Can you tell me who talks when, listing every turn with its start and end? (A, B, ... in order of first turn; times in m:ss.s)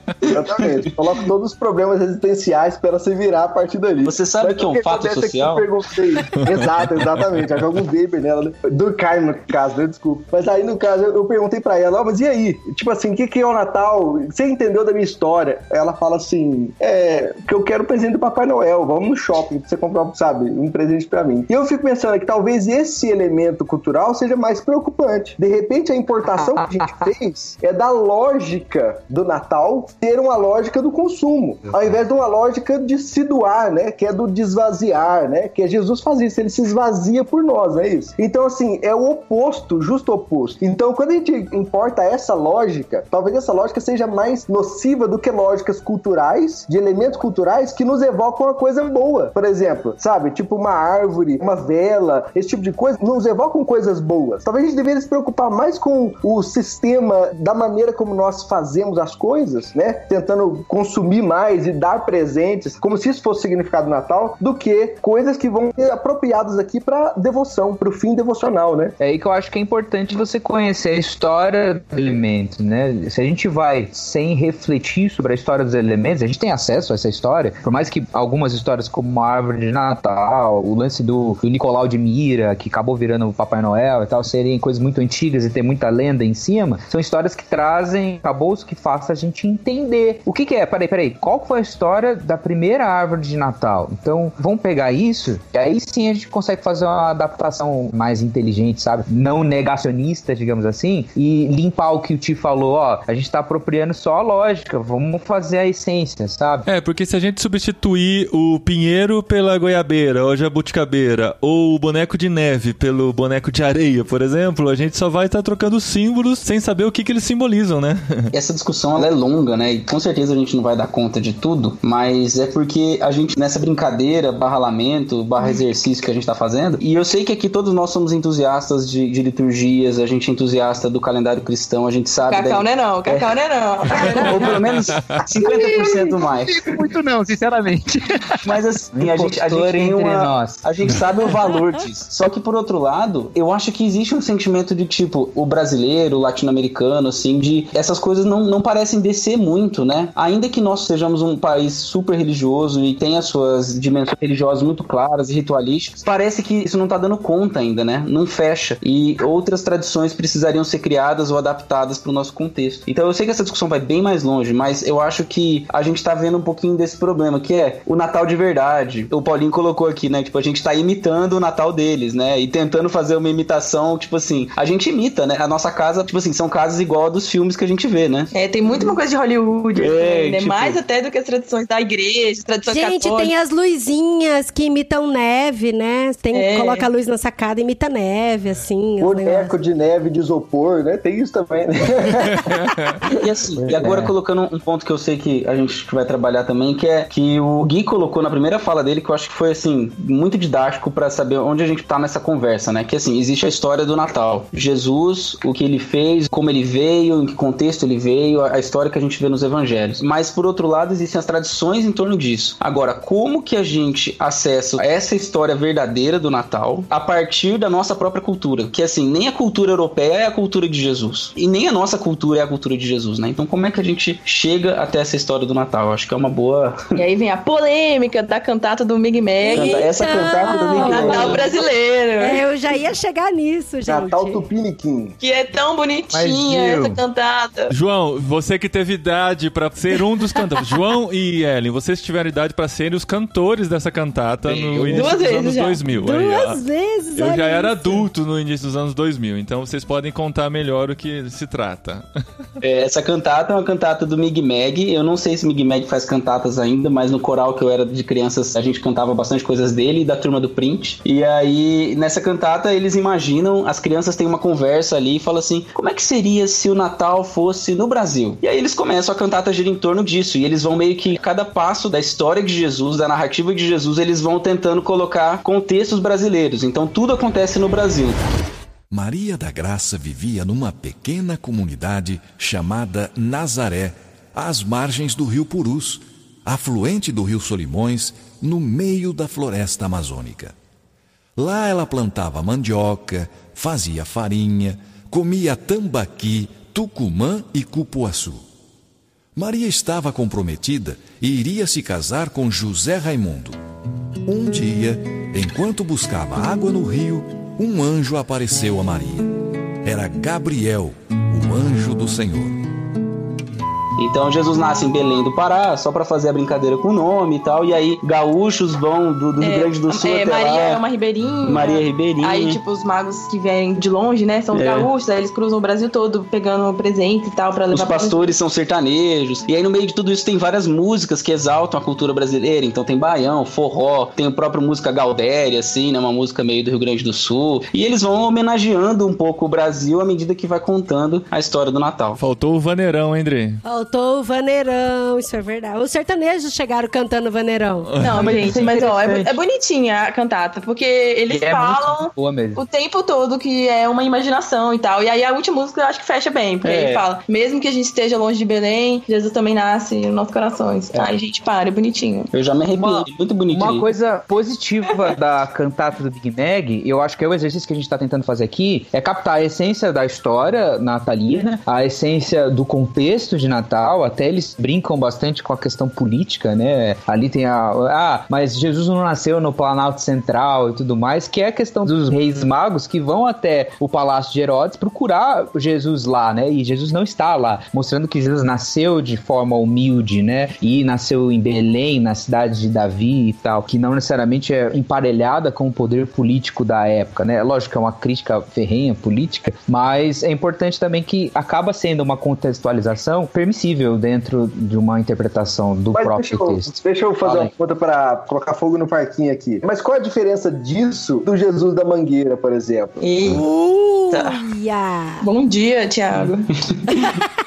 0:00.3-1:09.0 A
0:04.0-0:05.7 B
0:26.2-0:27.1 C
1:09.0-1:46.6 C
1:46.6-1:58.3 D
1:58.3-2:13.3 B
2:12.2-2:14.6 E
2:13.9-2:16.6 B
2:14.0-2:14.3 C
2:14.9-2:15.2 D
2:15.3-2:21.6 C
2:18.4-2:58.3 B
2:58.3-3:03.3 E
2:59.8-3:00.8 B
3:02.7-3:09.5 F
3:06.3-3:06.9 E
3:09.0-3:12.5 A
3:13.2-3:47.0 B
3:13.6-3:14.1 C
3:47.0-3:52.4 E
3:49.4-3:51.5 F
3:49.5-3:51.5 B
3:51.0-3:51.6 A
3:52.2-3:54.4 F
3:53.9-3:55.2 A
3:55.2-3:57.7 E
3:56.1-3:57.0 C
3:57.7-4:06.6 D
4:04.4-4:05.2 B
4:04.9-4:05.8 E
4:05.9-4:08.0 F
4:07.2-4:12.0 D
4:12.6-4:38.3 B
4:38.9-4:50.5 G
4:51.4-4:58.4 G
4:59.4-5:03.6 G
5:04.3-5:09.3 G
5:09.8-5:12.6 G
5:14.0-5:20.8 B
5:19.4-5:28.3 E
5:21.4-5:22.6 B
5:24.5-5:24.9 B
5:27.7-5:42.2 B
5:42.2-5:43.6 D
5:43.6-5:47.9 F
5:47.9-5:48.6 D
5:48.0-6:02.3 E
5:48.2-5:49.3 C
5:51.3-5:52.6 C
5:56.6-5:57.0 B
6:02.3-6:03.8 B
6:02.8-6:47.5 C
6:45.9-6:53.3 A
6:53.0-6:53.4 E
6:53.2-6:55.2 F
6:54.1-6:54.4 E
6:55.2-6:56.5 E